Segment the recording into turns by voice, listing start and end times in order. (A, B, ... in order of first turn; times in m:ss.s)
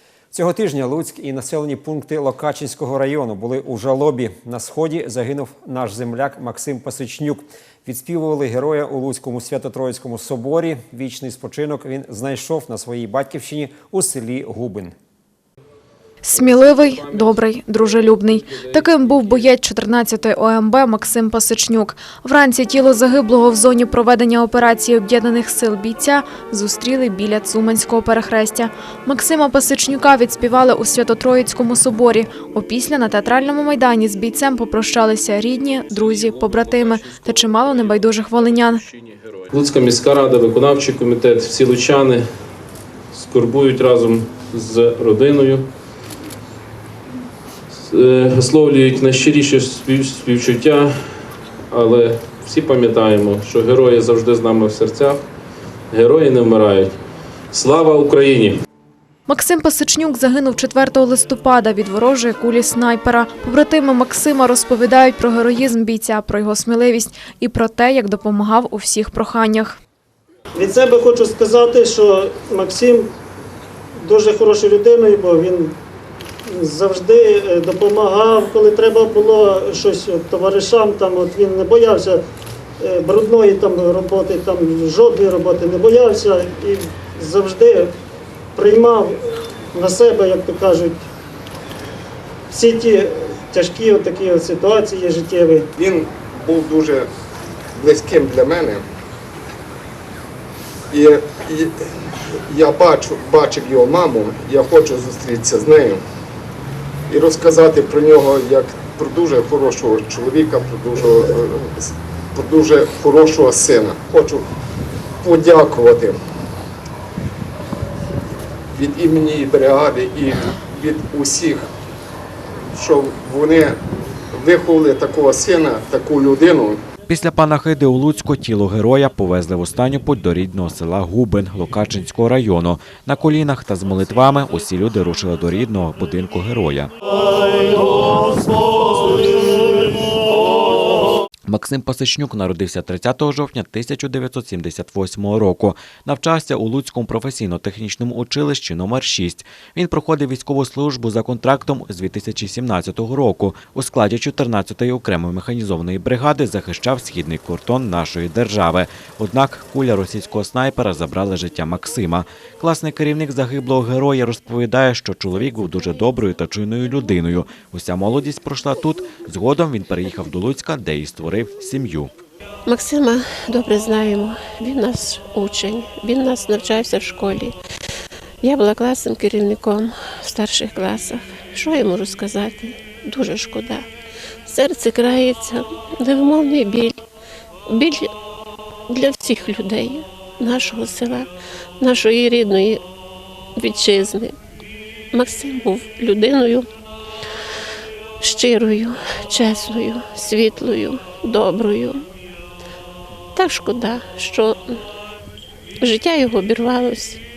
0:00.3-0:14.9 A
0:16.2-0:38.8 B
0:16.3-0:19.5 C
0:35.9-0:42.4 C
0:43.1-0:45.7 C
0:47.8-0:55.2 C
0:55.9-0:57.0 C
0:57.5-0:58.6 C
0:59.3-1:09.8 B
1:10.6-1:13.1 D
1:14.0-1:15.7 D
1:16.6-1:22.2 D
1:22.8-1:27.9 D
1:28.6-1:29.2 D
1:29.7-1:31.0 D
1:32.5-1:35.7 D
1:35.8-1:37.1 E
1:37.8-1:38.8 E
1:40.9-1:41.7 E
1:42.5-1:46.0 E
1:47.1-1:54.4 E
1:55.2-1:56.2 E
1:58.8-2:01.7 E
2:02.7-2:03.8 E
2:04.3-2:06.8 E
2:07.1-2:16.9 F
2:21.5-2:52.1 F
2:45.4-2:46.2 G
2:52.7-2:57.7 G
2:58.4-3:03.9 G
3:04.4-3:07.0 G
3:07.7-3:08.1 G
3:08.9-3:12.8 G
3:13.6-3:14.4 G
3:15.1-3:16.7 G
3:18.2-3:22.0 G
3:23.4-3:24.8 G
3:25.8-3:27.2 G